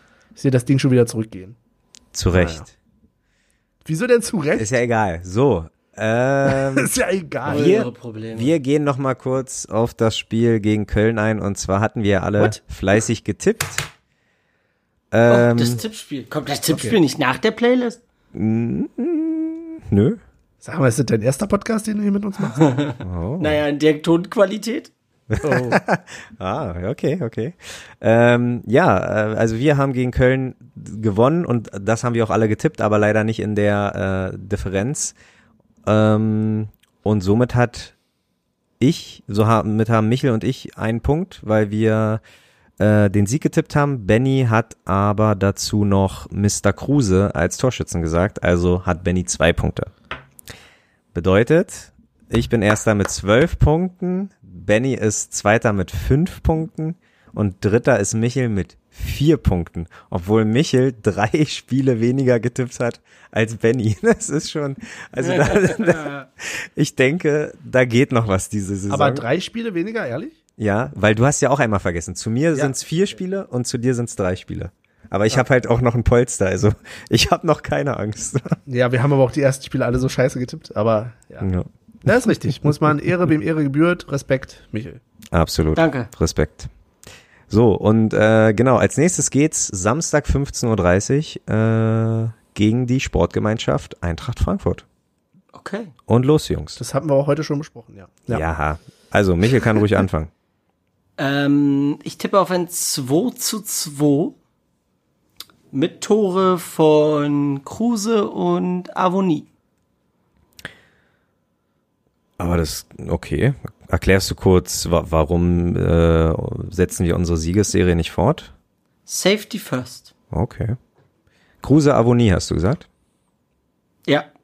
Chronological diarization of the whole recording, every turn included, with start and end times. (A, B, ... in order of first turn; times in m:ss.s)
0:00.4-0:01.6 A
0:02.1-0:02.7 B
0:02.3-0:02.7 A
0:03.8-0:04.8 A
0:04.6-0:06.9 B
0:06.4-0:07.7 A
0:07.5-0:08.5 C
0:07.5-0:13.9 B
0:15.1-0:15.8 B
0:15.3-0:18.0 C
0:16.7-0:17.0 A
0:18.3-0:20.2 B
0:20.6-0:22.7 A
0:22.6-0:24.9 C
0:23.0-0:23.6 B
0:25.3-0:35.2 B
0:25.4-0:25.8 A
0:35.8-0:38.0 B
0:38.8-0:42.2 B
0:42.8-0:49.9 B
0:51.1-1:09.3 B
1:05.3-1:06.3 C
1:08.9-1:10.4 A
1:10.6-1:18.6 B
1:18.7-1:21.5 A
1:21.4-1:21.7 B
1:22.0-1:25.0 A
1:25.3-1:26.7 B
1:25.8-1:26.1 C
1:27.5-1:34.8 B
1:35.5-1:35.9 C
1:36.1-1:36.8 B
1:36.8-1:38.4 A
1:38.3-1:40.3 B
1:41.2-1:44.4 C
1:45.7-1:49.5 C
1:52.4-1:58.5 B
1:59.1-2:00.1 C
2:00.3-2:00.8 B
2:01.6-2:02.9 B